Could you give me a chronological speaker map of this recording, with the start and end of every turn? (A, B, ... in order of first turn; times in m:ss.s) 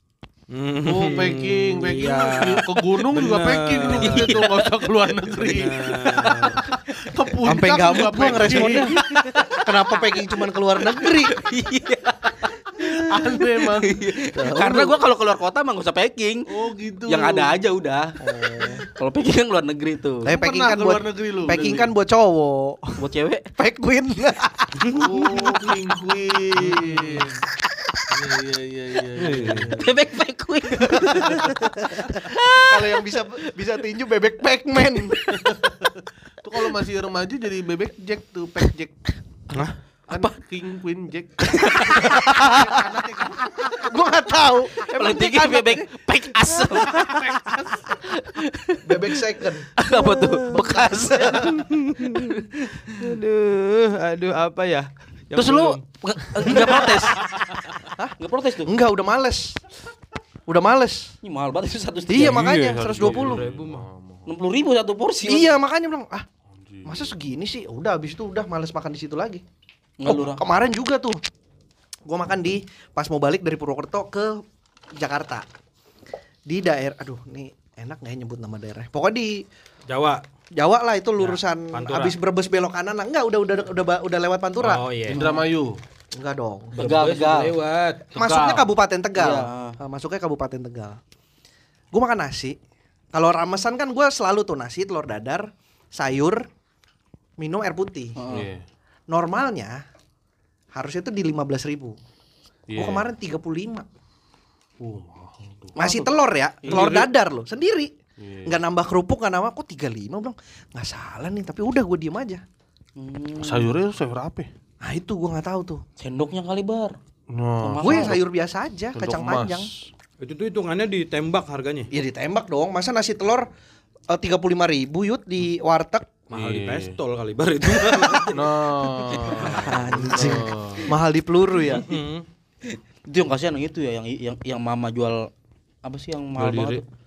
0:00.5-0:04.4 A
0:00.8-0:09.1 B
0:04.0-0:04.9 C
0:05.4-0:06.6 A
0:06.2-0:07.2 C
0:07.4-0:11.4 D
0:07.8-0:10.2 C
0:11.0-0:16.5 C
0:12.8-0:14.2 B
0:14.3-0:15.0 D
0:16.5-0:17.6 B
0:17.1-0:20.4 C
0:18.2-0:18.8 D
0:20.2-0:23.0 D
0:20.3-0:21.9 B
0:23.0-0:23.5 C
0:23.6-0:25.4 D
0:24.9-0:27.4 B
0:26.6-0:27.3 A
0:28.1-0:29.9 B
0:29.2-0:29.7 A
0:29.7-0:32.9 C
0:30.8-0:35.4 D
0:35.1-0:35.4 C
0:35.4-0:35.9 B
0:36.4-0:39.0 B
0:40.1-0:43.8 B
0:40.1-0:40.4 C
0:41.5-0:42.3 C
0:41.9-0:45.9 D
0:44.8-0:49.0 C
0:46.6-0:46.9 D
0:47.1-0:47.4 B
0:48.8-0:49.8 D
0:49.8-0:52.7 C
0:49.9-0:50.4 A
0:50.4-0:51.6 D
0:51.4-0:55.8 A
0:55.4-0:57.6 C
0:56.4-0:57.0 A
0:56.5-0:57.0 D
0:58.0-0:59.6 D
0:58.2-0:58.7 C
1:00.5-1:01.2 D
1:01.2-1:02.5 C
1:02.1-1:03.4 D
1:02.2-1:03.9 A
1:02.7-1:04.3 B
1:04.3-1:05.6 C
1:05.2-1:06.3 D
1:06.5-1:07.1 B
1:06.8-1:09.4 D
1:10.0-1:10.4 C
1:10.1-1:11.2 D
1:12.1-1:14.4 D
1:14.9-1:15.5 D
1:16.5-1:19.4 D
1:19.9-1:20.2 A
1:20.6-1:24.8 D
1:21.2-1:22.2 A
1:24.6-1:25.3 A
1:25.1-1:25.8 B
1:26.1-1:26.8 D
1:26.8-1:28.1 A
1:26.8-1:27.6 C
1:28.2-1:28.7 B
1:28.2-1:31.0 D
1:29.2-1:29.8 C
1:31.9-1:32.6 D
1:33.1-1:36.5 D
1:37.4-1:38.2 D
1:38.2-1:38.5 C
1:38.3-1:38.6 B
1:39.1-1:39.8 D
1:40.7-1:42.0 D
1:42.7-1:43.0 B
1:42.8-1:43.9 D
1:44.8-1:46.0 B
1:45.8-1:47.9 D
1:46.6-1:47.1 C
1:48.2-1:48.6 B
1:48.4-1:52.4 D
1:53.0-1:53.8 C
1:53.4-1:54.5 B
1:54.8-1:55.8 D
1:56.0-1:57.0 C
1:57.3-1:58.2 B
1:57.6-1:58.2 C
1:57.8-1:59.7 D
1:59.0-1:59.7 B
2:00.2-2:01.9 A
2:01.9-2:03.5 D
2:04.1-2:06.1 D
2:06.3-2:08.5 A
2:06.3-2:07.0 B
2:08.3-2:10.9 B
2:09.2-2:09.7 A
2:09.5-2:11.9 D
2:11.7-2:12.2 A
2:12.7-2:15.3 C
2:15.8-2:16.8 C
2:16.4-2:16.8 A